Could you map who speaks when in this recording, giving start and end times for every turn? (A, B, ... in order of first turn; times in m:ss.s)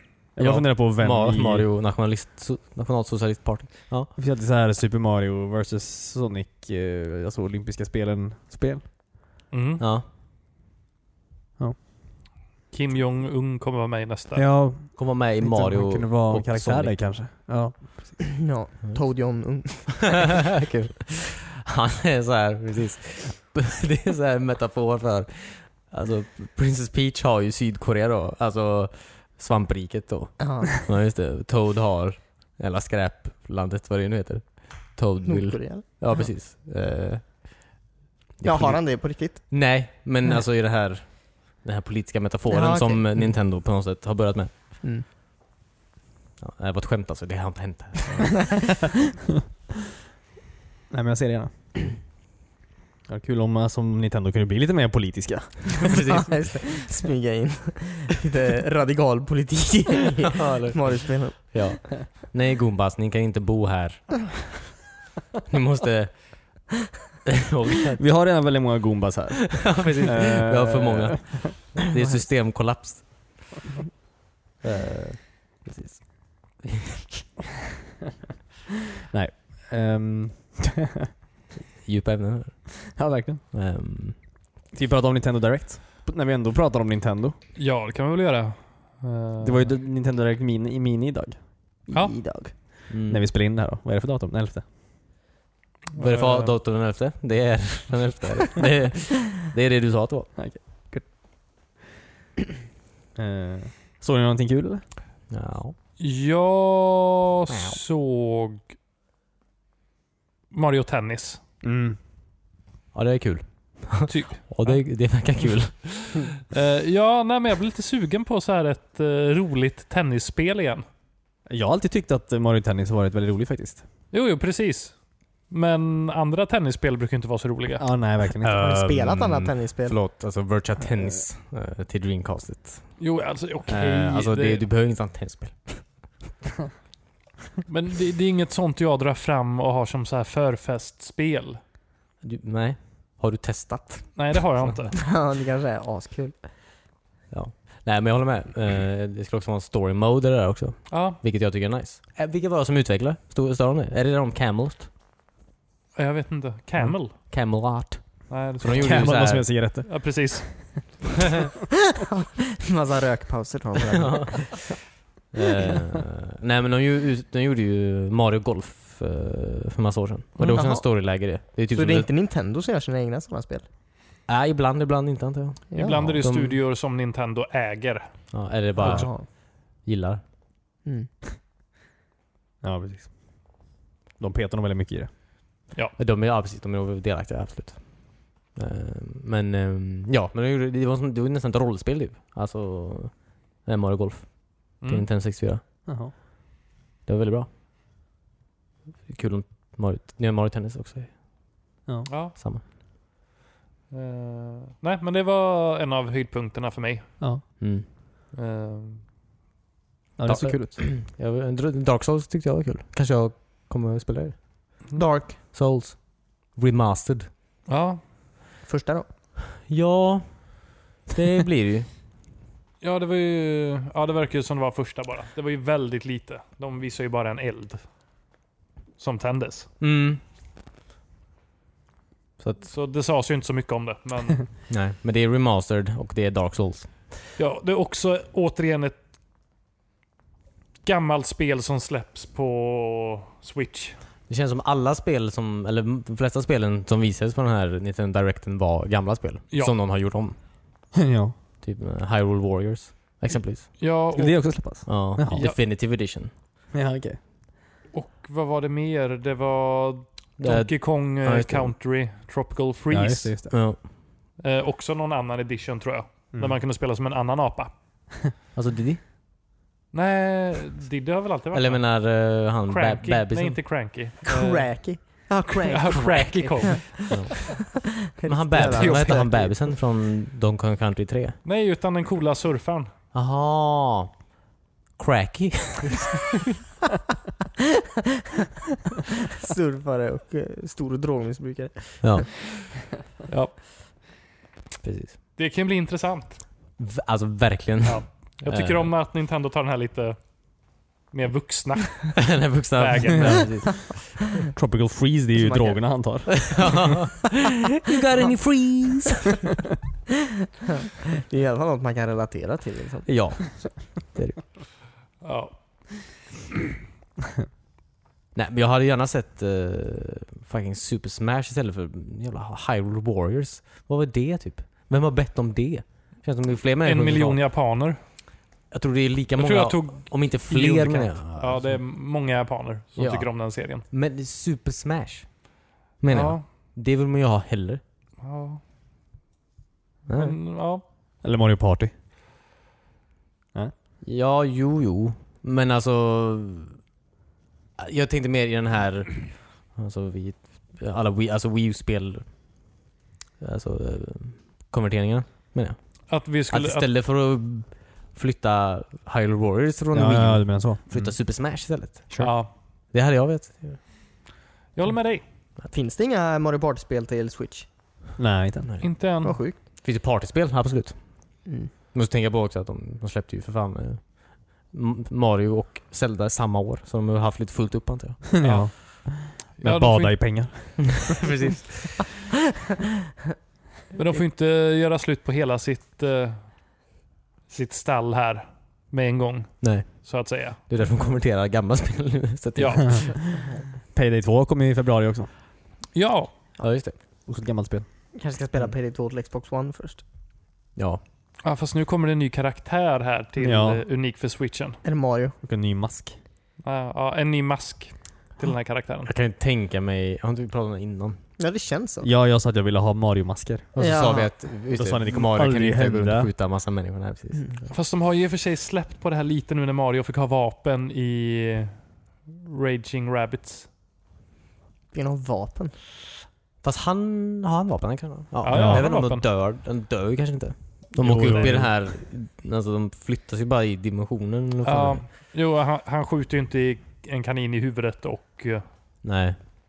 0:00.3-0:01.7 A
0:00.4-0:04.1 B
0:04.1-0:08.9 A
0:09.5-0:09.8 C
0:09.8-0:10.0 B
0:12.7-0:14.5 C
0:14.3-0:18.2 A
0:14.9-0:17.1 B
0:18.4-0:20.2 D
0:19.6-0:37.7 B
0:30.4-0:30.7 D
0:35.2-0:36.2 D
0:38.4-0:44.5 B
0:38.4-0:39.7 D
0:42.5-0:43.0 D
0:46.4-0:48.7 B
0:50.9-0:51.5 A
0:53.1-0:56.0 A
0:55.8-0:56.8 B
0:56.2-1:01.9 D
1:00.3-1:04.8 B
1:05.5-1:06.7 B
1:07.4-1:08.1 B
1:08.0-1:11.5 A
1:09.6-1:13.5 B
1:14.6-1:16.8 B
1:19.1-1:21.1 A
1:21.8-1:24.2 B
1:22.9-1:23.4 A
1:24.7-1:27.4 A
1:27.6-1:29.8 C
1:29.4-1:34.7 A
1:31.9-1:32.2 C
1:32.0-1:32.3 D
1:32.9-1:33.3 B
1:35.9-1:36.6 C
1:36.0-1:40.3 B
1:40.3-1:41.2 A
1:43.1-1:44.8 A
1:45.3-1:45.7 B
1:46.0-1:48.7 C
1:50.5-1:51.4 C
1:51.6-1:52.0 A
1:52.9-1:56.2 B
1:54.1-1:54.9 C
1:56.5-2:00.8 C
2:01.5-2:03.8 A
2:04.1-2:07.9 C
2:07.8-2:08.8 A
2:08.4-2:13.0 B
2:08.4-2:10.0 D
2:13.0-2:14.6 C
2:13.7-2:16.1 B
2:17.7-2:21.6 C
2:22.2-2:24.8 B
2:24.1-2:24.9 C
2:25.0-2:26.4 D
2:27.3-2:34.9 B
2:30.9-2:31.2 C
2:35.9-2:37.1 C
2:37.0-2:39.6 B
2:38.3-2:41.0 C
2:38.7-2:40.7 A
2:42.2-2:44.7 D
2:44.0-2:44.8 B
2:45.3-2:52.1 B
2:50.5-2:53.6 D
2:54.3-2:56.6 B
2:55.7-2:56.2 D
2:55.7-2:59.1 C
2:58.3-3:00.3 B
2:58.8-2:59.3 D
3:00.8-3:01.1 D
3:02.6-3:03.5 A
3:04.2-3:05.2 A
3:06.0-3:15.6 B
3:14.8-3:15.0 C
3:15.8-3:16.1 A
3:17.0-3:17.5 B
3:19.0-3:21.2 B
3:22.1-3:22.3 C
3:22.3-3:22.6 B
3:23.9-3:27.6 C
3:27.6-3:27.8 B
3:28.3-3:29.0 C
3:30.2-3:30.8 A
3:30.2-3:37.3 B
3:34.9-3:35.4 D
3:37.6-3:38.0 C
3:38.6-3:39.1 D
3:39.6-3:41.9 B
3:42.8-3:47.9 C
3:49.0-3:49.7 C
3:49.8-3:50.2 B
3:52.4-3:52.7 B
3:52.6-3:54.4 C
3:54.7-3:57.1 B
3:57.4-3:59.0 C
4:00.8-4:04.0 C
4:04.3-4:10.4 B
4:10.9-4:11.3 A
4:11.6-4:13.8 B
4:13.8-4:15.6 C
4:14.1-4:15.5 A
4:14.8-4:16.3 B
4:16.7-4:17.2 A
4:17.9-4:23.6 C
4:20.4-4:21.7 B
4:22.9-4:23.6 A
4:23.5-4:23.8 B
4:24.4-4:27.8 C
4:26.3-4:26.6 A
4:28.5-4:29.0 B
4:29.9-4:37.4 C
4:31.5-4:33.8 B
4:34.2-4:39.6 D
4:36.2-4:37.7 B
4:38.3-4:41.4 B
4:38.6-4:39.3 C
4:41.4-4:42.9 C
4:43.1-4:44.4 B
4:45.0-4:46.3 B
4:49.4-4:52.3 D
4:52.0-4:52.3 B
4:53.3-4:53.6 C
4:54.8-4:55.2 B
4:55.4-4:56.4 C
4:56.8-4:58.9 B
4:57.8-5:03.6 C
5:02.2-5:04.2 B
5:04.5-5:07.0 A
5:05.4-5:06.3 D
5:06.3-5:09.5 B
5:11.3-5:13.7 D
5:13.0-5:14.4 B
5:15.2-5:15.9 C
5:18.3-5:27.4 B
5:26.8-5:28.0 C
5:28.7-5:31.8 B
5:29.4-5:33.8 C
5:33.0-5:37.8 B
5:36.1-5:36.4 C
5:38.2-5:38.6 C
5:40.0-5:40.4 B
5:40.1-5:40.8 C
5:41.2-5:41.9 A
5:44.0-5:46.8 B
5:47.8-5:52.5 B
5:53.4-6:03.8 B
5:56.1-5:56.9 C
5:59.9-6:00.8 A
6:02.2-6:02.5 C
6:04.7-6:05.2 C
6:05.7-6:07.7 D
6:08.2-6:08.7 A
6:08.6-6:18.4 B
6:08.8-6:09.4 C
6:09.2-6:09.6 D
6:11.4-6:11.7 D
6:18.3-6:21.3 A
6:18.4-6:20.4 C
6:21.0-6:22.1 B
6:23.9-6:26.6 C
6:27.5-6:30.6 C
6:29.6-6:33.2 B
6:32.6-6:33.1 C
6:33.9-6:35.3 A
6:35.9-6:36.3 C
6:36.6-6:37.0 B
6:37.2-6:37.9 A
6:38.1-6:40.0 D
6:40.8-6:41.0 B
6:41.4-6:44.8 C
6:43.4-6:43.8 A
6:44.8-6:45.4 D
6:45.4-6:46.2 A
6:46.6-6:49.1 C
6:49.0-6:51.2 B
6:51.4-6:52.1 D
6:52.0-6:53.7 A
6:53.7-6:57.5 B
6:53.8-6:54.4 D
6:54.7-6:56.3 A
6:57.3-6:57.6 D
6:57.7-7:03.7 C
7:04.9-7:05.7 D
7:06.6-7:15.0 B
7:08.4-7:09.2 C
7:08.5-7:08.9 A
7:11.0-7:11.6 C
7:11.0-7:11.7 A
7:14.6-7:18.6 C
7:19.0-7:19.4 B